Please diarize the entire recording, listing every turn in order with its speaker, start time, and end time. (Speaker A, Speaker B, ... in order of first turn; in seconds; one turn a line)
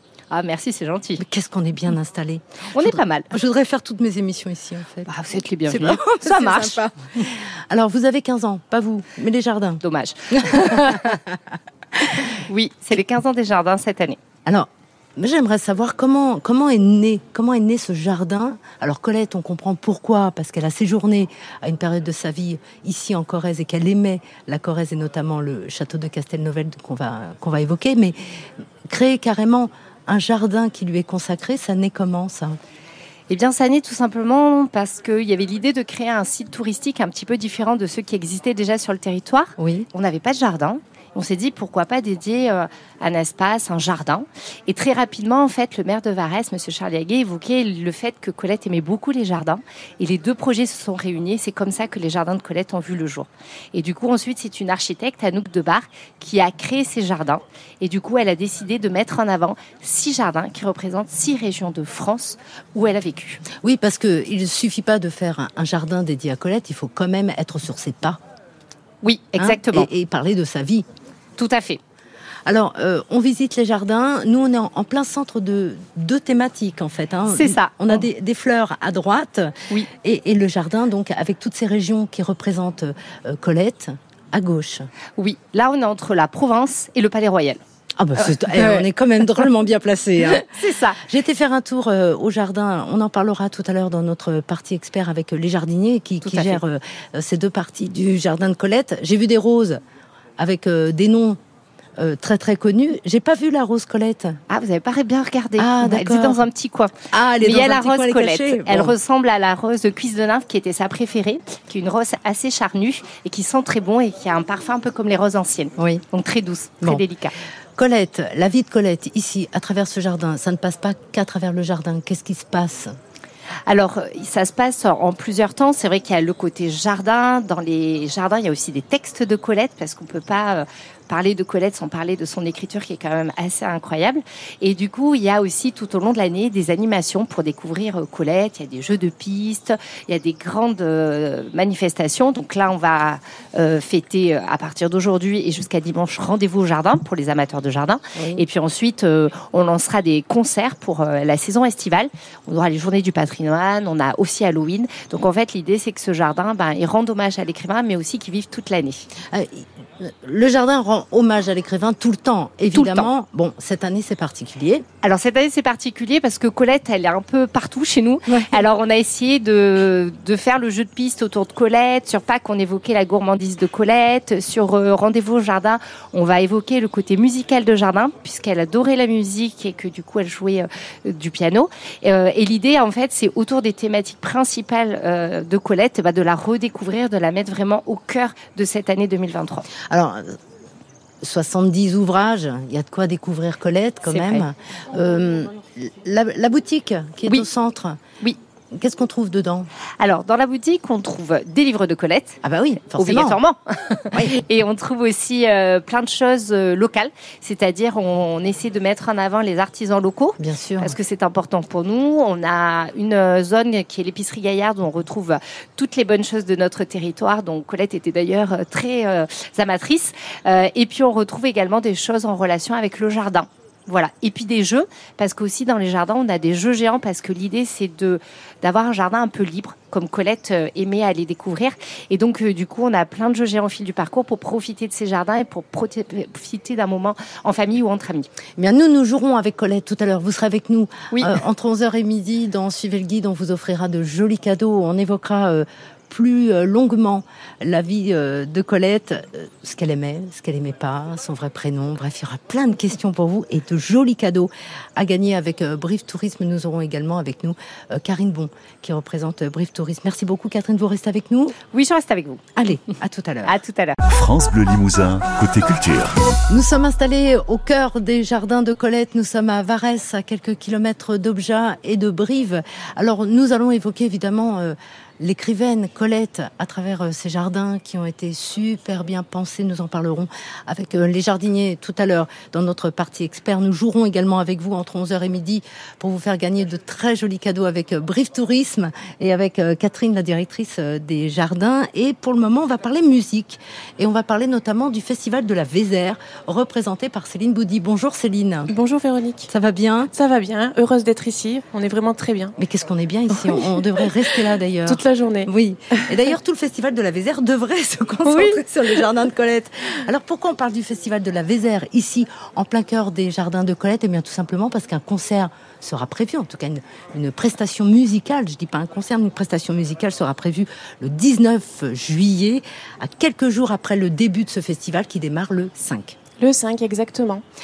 Speaker A: 0.3-1.2
Speaker B: 1.2-5.1
Speaker A: 2.7-3.3
Speaker A: 5.1-6.9
Speaker B: 5.7-9.8
Speaker A: 9.8-11.2
Speaker B: 10.3-11.4
Speaker A: 12.3-14.2
Speaker B: 14.5-28.1
Speaker B: 28.9-32.6
Speaker A: 33.3-63.4
Speaker B: 39.6-39.9
Speaker B: 63.6-68.2
Speaker A: 69.0-69.9
Speaker B: 69.4-70.8
Speaker A: 71.4-71.8
Speaker B: 72.5-84.9
Speaker A: 77.3-78.0
Speaker A: 85.2-87.6
Speaker B: 88.0-90.5
Speaker A: 88.2-88.8
Speaker A: 90.2-91.0
Speaker B: 91.0-99.8
Speaker A: 96.2-96.6
Speaker B: 100.4-101.4
Speaker B: 102.0-104.4
Speaker A: 104.5-117.3
Speaker B: 105.6-106.4
Speaker B: 107.1-109.0
Speaker B: 115.8-116.0
Speaker B: 117.8-123.0
Speaker A: 123.7-159.1
Speaker B: 148.2-148.4
Speaker B: 159.3-164.9
Speaker A: 162.7-163.1
Speaker A: 165.0-189.7
Speaker B: 168.3-168.6
Speaker B: 189.9-190.4
Speaker B: 191.2-198.0
Speaker A: 194.1-194.4
Speaker B: 198.7-199.7
Speaker A: 200.0-202.4
Speaker B: 202.4-203.4
Speaker A: 202.9-238.3
Speaker B: 210.4-210.9
Speaker B: 238.6-261.6
Speaker A: 241.1-241.4
Speaker A: 261.7-262.4
Speaker B: 262.6-263.5
Speaker A: 263.4-264.0
Speaker C: 264.1-266.3
Speaker B: 266.5-298.7
Speaker D: 298.7-299.5
Speaker B: 299.5-300.1
Speaker D: 300.1-302.6
Speaker B: 302.6-326.2
Speaker D: 303.3-304.0
Speaker D: 304.9-306.1
Speaker D: 308.2-308.6
Speaker D: 326.4-327.4